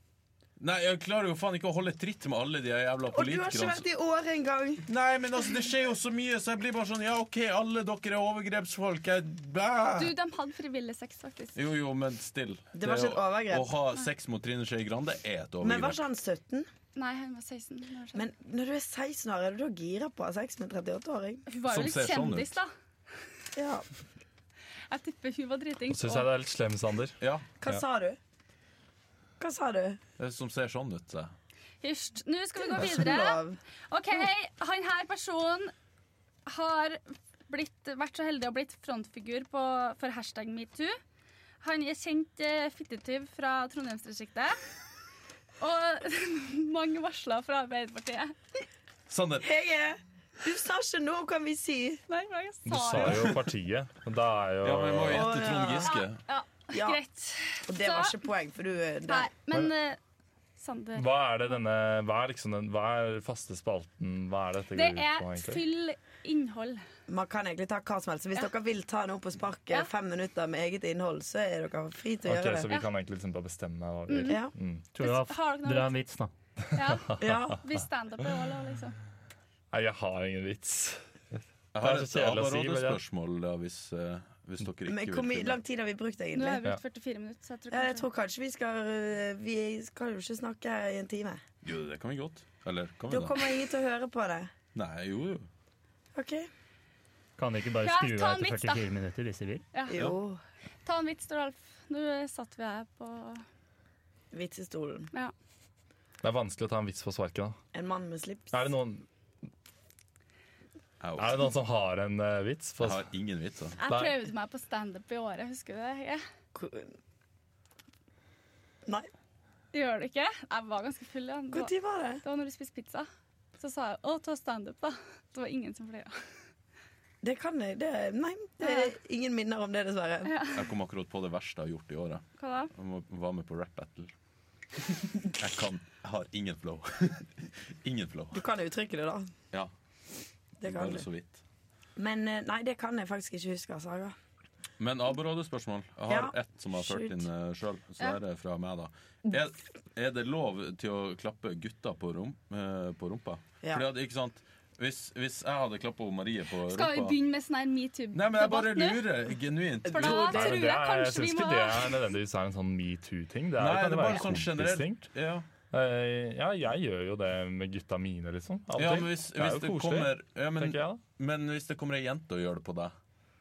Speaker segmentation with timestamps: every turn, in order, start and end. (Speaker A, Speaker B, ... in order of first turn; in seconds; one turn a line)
Speaker A: 0.6-3.8
Speaker B: 3.1-4.8
Speaker A: 4.8-10.1
Speaker C: 9.9-11.6
Speaker A: 11.6-16.0
Speaker B: 12.7-13.7
Speaker B: 15.6-16.7
Speaker C: 16.9-18.2
Speaker B: 18.1-21.4
Speaker C: 21.5-22.7
Speaker A: 21.7-22.5
Speaker B: 23.6-23.9
Speaker C: 24.9-26.3
Speaker D: 25.9-27.8
Speaker A: 27.2-27.5
Speaker B: 27.6-28.2
Speaker B: 29.4-30.0
Speaker A: 30.2-31.3
Speaker C: 31.8-35.7
Speaker B: 32.6-33.6
Speaker C: 36.5-40.9
Speaker C: 41.6-44.6
Speaker C: 45.6-48.3
Speaker A: 49.1-49.5
Speaker B: 49.4-52.0
Speaker C: 52.1-53.3
Speaker D: 52.6-55.3
Speaker A: 52.9-53.4
Speaker A: 54.6-56.2
Speaker B: 55.0-55.9
Speaker C: 55.8-58.2
Speaker B: 56.7-57.0
Speaker B: 57.7-59.3
Speaker C: 59.1-60.0
Speaker C: 60.6-61.1
Speaker D: 61.0-65.6
Speaker C: 64.7-66.8
Speaker B: 67.1-72.7
Speaker D: 72.2-74.8
Speaker C: 74.1-74.4
Speaker B: 74.2-74.5
Speaker E: 74.9-76.3
Speaker C: 75.0-75.9
Speaker C: 76.7-79.0
Speaker D: 76.8-77.3
Speaker B: 77.2-77.6
Speaker D: 79.7-81.0
Speaker A: 81.7-85.6
Speaker D: 81.8-83.0
Speaker B: 84.9-86.6
Speaker C: 86.3-88.1
Speaker B: 87.7-91.4
Speaker A: 91.6-93.5
Speaker B: 93.1-94.5
Speaker A: 94.7-95.5
Speaker B: 96.1-96.5
Speaker E: 97.4-99.6
Speaker C: 97.8-98.9
Speaker C: 99.7-100.0
Speaker B: 99.9-100.4
Speaker C: 100.8-103.4
Speaker B: 104.3-105.1
Speaker D: 106.2-107.6
Speaker B: 107.7-108.6
Speaker D: 108.5-109.0
Speaker A: 111.0-111.5
Speaker D: 111.2-113.0
Speaker A: 112.8-113.8
Speaker C: 113.8-116.2
Speaker D: 113.8-114.2
Speaker B: 116.5-117.0
Speaker C: 119.7-123.1
Speaker B: 121.5-122.2
Speaker C: 123.6-126.2
Speaker B: 127.2-130.3
Speaker C: 128.6-128.9
Speaker C: 130.2-130.7
Speaker A: 130.5-134.1
Speaker C: 132.4-132.7
Speaker A: 135.2-138.4
Speaker B: 138.3-139.3
Speaker B: 140.6-141.1
Speaker A: 140.6-141.4
Speaker B: 142.0-144.2
Speaker A: 144.8-157.2
Speaker B: 146.1-147.3
Speaker C: 156.6-159.0
Speaker A: 158.1-160.6
Speaker C: 159.9-162.0
Speaker B: 159.9-160.4
Speaker D: 160.1-165.1
Speaker A: 163.6-165.5
Speaker D: 165.7-171.0
Speaker A: 168.7-172.9